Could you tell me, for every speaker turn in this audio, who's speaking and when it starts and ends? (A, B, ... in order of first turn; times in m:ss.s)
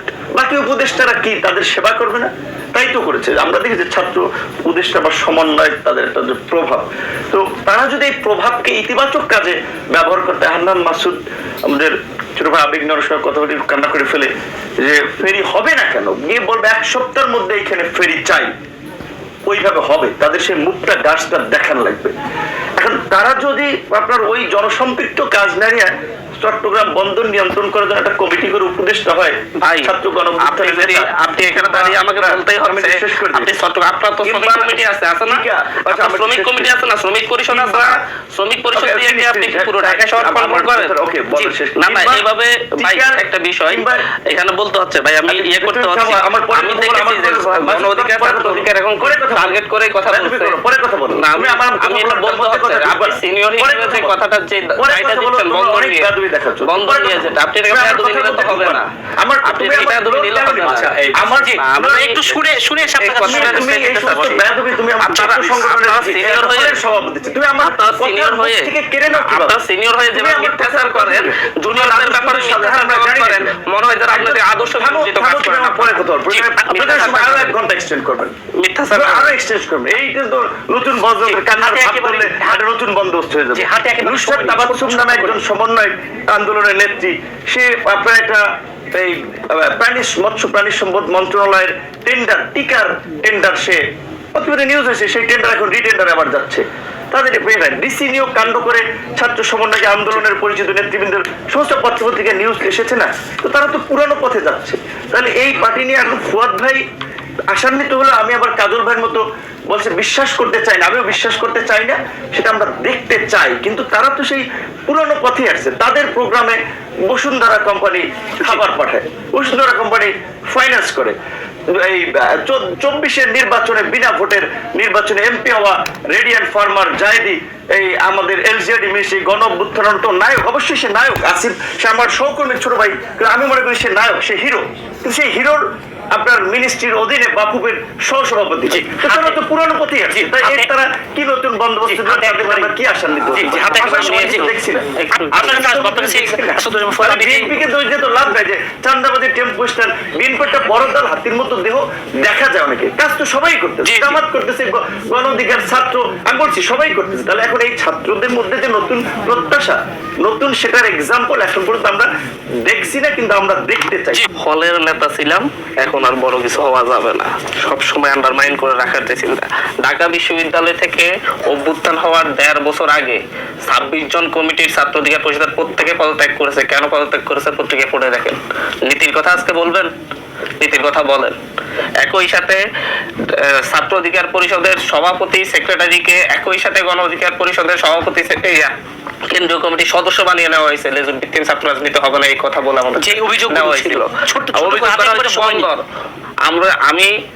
0:00.4-0:18.5 A
0:19.5-0:22.1 A
0:22.8-0:33.5 A
0:29.6-0:50.6 B
0:34.2-0:36.7 A
0:37.5-0:38.0 A
0:38.8-0:42.2 A
0:42.8-0:44.0 A
0:45.3-0:49.6 A
0:50.1-0:54.2 A
0:51.2-0:56.1 B
0:54.8-1:01.6 A
0:56.6-0:58.9 B
0:59.4-1:00.9 B
1:00.4-1:04.4 C
1:01.6-1:02.3 B
1:03.0-1:04.4 B
1:03.2-1:09.6 A
1:05.0-1:06.8 B
1:07.6-1:17.5 B
1:10.1-1:13.5 A
1:14.1-1:18.3 A
1:16.3-1:17.3 C
1:18.6-1:19.4 B
1:18.9-1:33.8 A
1:21.2-1:22.6 C
1:23.5-1:25.4 C
1:34.4-1:46.8 A
1:47.5-2:01.2 A
2:01.7-2:15.6 A
2:16.2-2:42.1 A
2:18.7-2:19.4 C
2:20.1-2:20.7 C
2:21.8-2:24.5 C
2:23.7-2:25.4 B
2:25.1-2:27.6 C
2:33.8-2:34.2 C
2:42.7-2:44.3 A
2:44.4-2:59.9 B
3:00.6-3:01.4 B
3:02.0-3:02.6 B
3:03.2-3:08.7 B
3:09.3-3:15.8 B
3:13.0-3:15.7 C
3:16.5-3:17.1 B